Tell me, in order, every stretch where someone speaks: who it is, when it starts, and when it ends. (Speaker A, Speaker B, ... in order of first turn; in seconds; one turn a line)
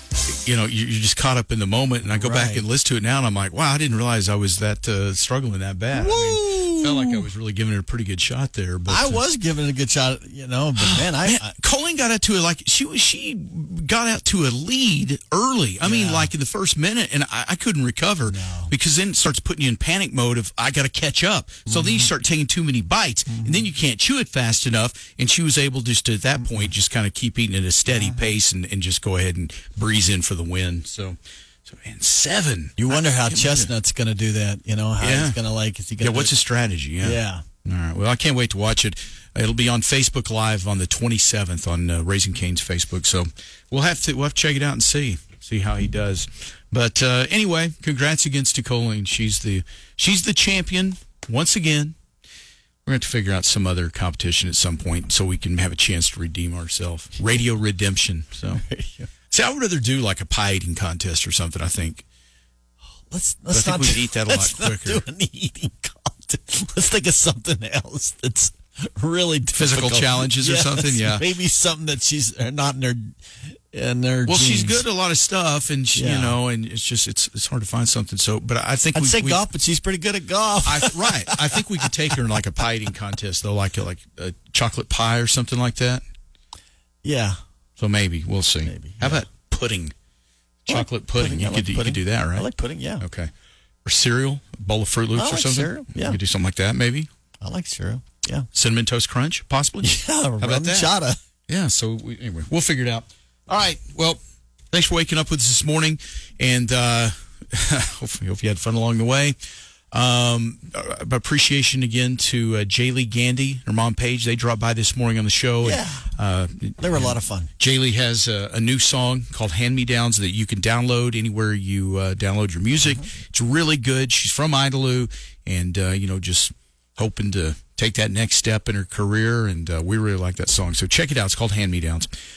Speaker A: 0.2-9.2
Speaker B: 2.1-2.6
Speaker B: 5.9-7.3
Speaker B: 8.9-11.5
Speaker A: 10.8-33.7
Speaker B: 15.8-16.3
Speaker B: 18.2-18.7
Speaker B: 21.7-22.1
Speaker B: 23.3-23.7
Speaker B: 26.4-26.7
Speaker B: 27.9-28.2
Speaker B: 32.8-36.4
Speaker A: 35.0-35.4
Speaker A: 36.0-51.9
Speaker B: 37.0-37.4
Speaker A: 52.9-58.6
Speaker B: 58.5-59.1
Speaker A: 59.3-62.0
Speaker B: 63.1-74.8
Speaker A: 63.5-65.0
Speaker A: 69.5-71.2
Speaker A: 74.2-79.4
Speaker B: 75.9-76.4
Speaker B: 78.9-81.9
Speaker A: 80.6-86.0
Speaker B: 87.0-87.4
Speaker A: 87.8-89.9
Speaker B: 88.6-89.3
Speaker A: 90.6-92.5
Speaker B: 90.7-93.0
Speaker A: 93.0-93.3
Speaker A: 93.8-97.1
Speaker B: 95.1-96.2
Speaker B: 97.4-98.5
Speaker A: 98.5-100.9
Speaker B: 99.8-101.2
Speaker A: 101.5-104.2
Speaker A: 104.7-109.4
Speaker A: 109.9-132.1
Speaker B: 115.6-116.1
Speaker B: 116.8-117.5